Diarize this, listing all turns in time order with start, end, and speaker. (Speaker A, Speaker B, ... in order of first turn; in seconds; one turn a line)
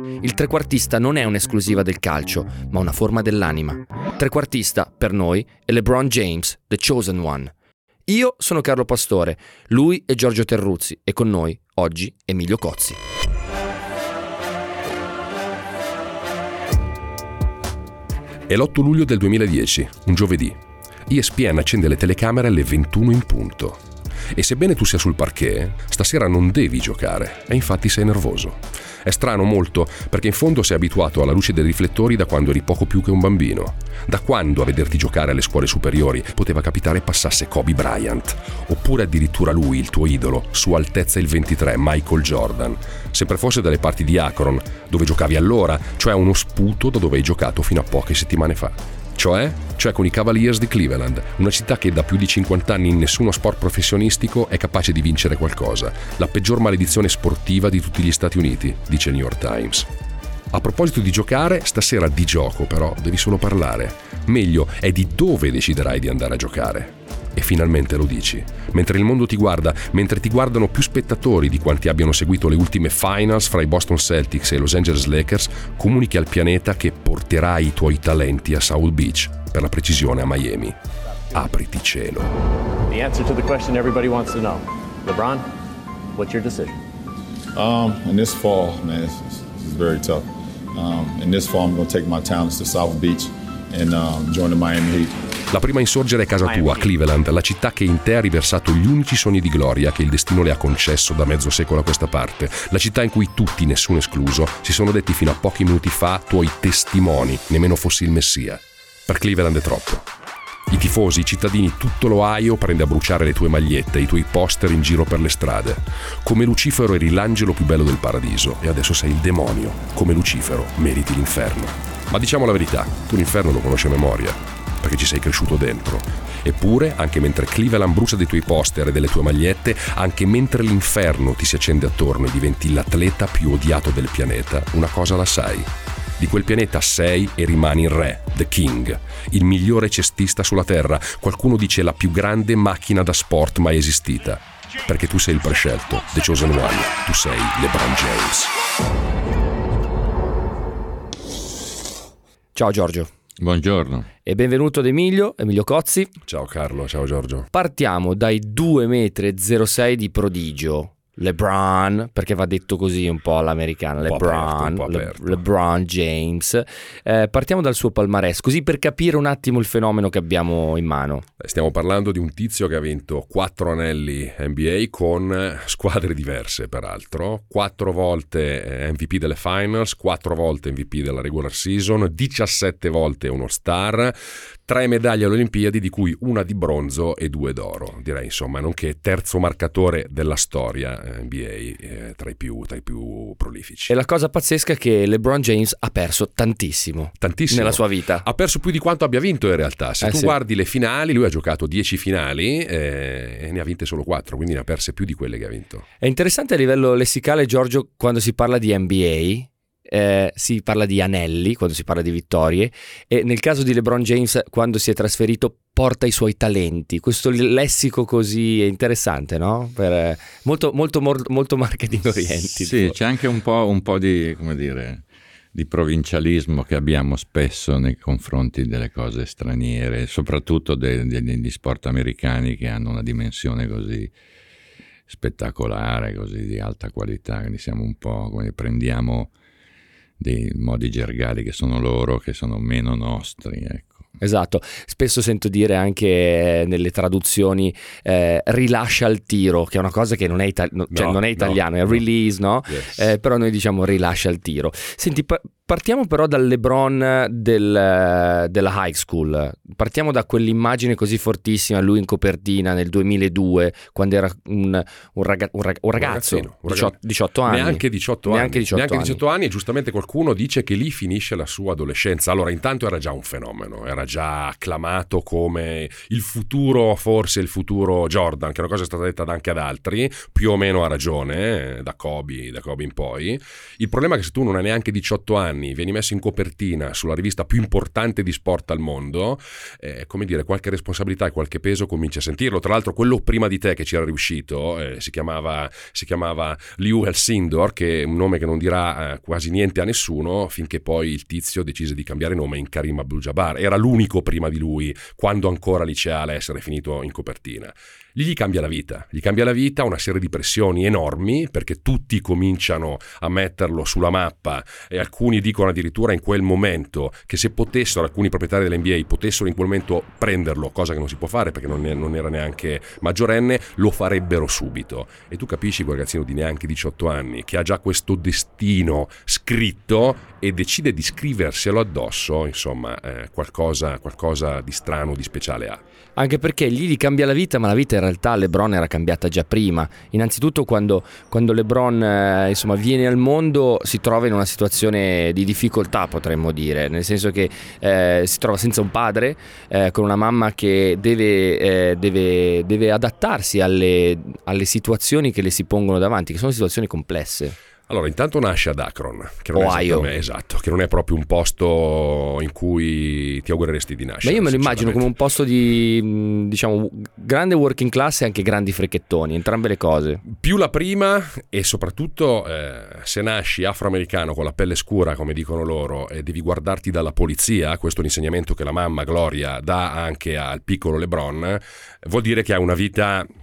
Speaker A: 0.2-7.5
Speaker A: 8.1-13.0
Speaker B: 18.5-23.8
Speaker B: 24.3-59.9
Speaker B: 60.5-80.8
Speaker B: 81.3-82.3
Speaker C: 82.9-85.5
Speaker C: 86.1-86.8
Speaker D: 87.5-95.2
Speaker B: 95.5-110.1
Speaker C: 96.4-96.9
Speaker B: 110.7-148.5
Speaker A: 152.5-153.1
Speaker E: 153.4-154.1
Speaker A: 154.2-156.1
Speaker B: 156.3-157.5
Speaker A: 157.5-171.2
Speaker B: 164.0-165.4
Speaker B: 171.4-193.9
Speaker A: 193.9-198.2
Speaker B: 197.2-205.8
Speaker A: 200.0-200.3
Speaker A: 206.0-223.0
Speaker E: 222.6-234.1
Speaker E: 235.1-239.3
Speaker E: 240.2-244.0
Speaker A: 244.2-269.2
Speaker B: 250.9-252.0
Speaker B: 252.7-253.0
Speaker B: 266.0-266.9
Speaker B: 267.5-335.8
Speaker A: 336.1-357.6
Speaker B: 357.9-365.1
Speaker A: 359.5-360.1
Speaker A: 364.2-370.2
Speaker B: 370.3-383.3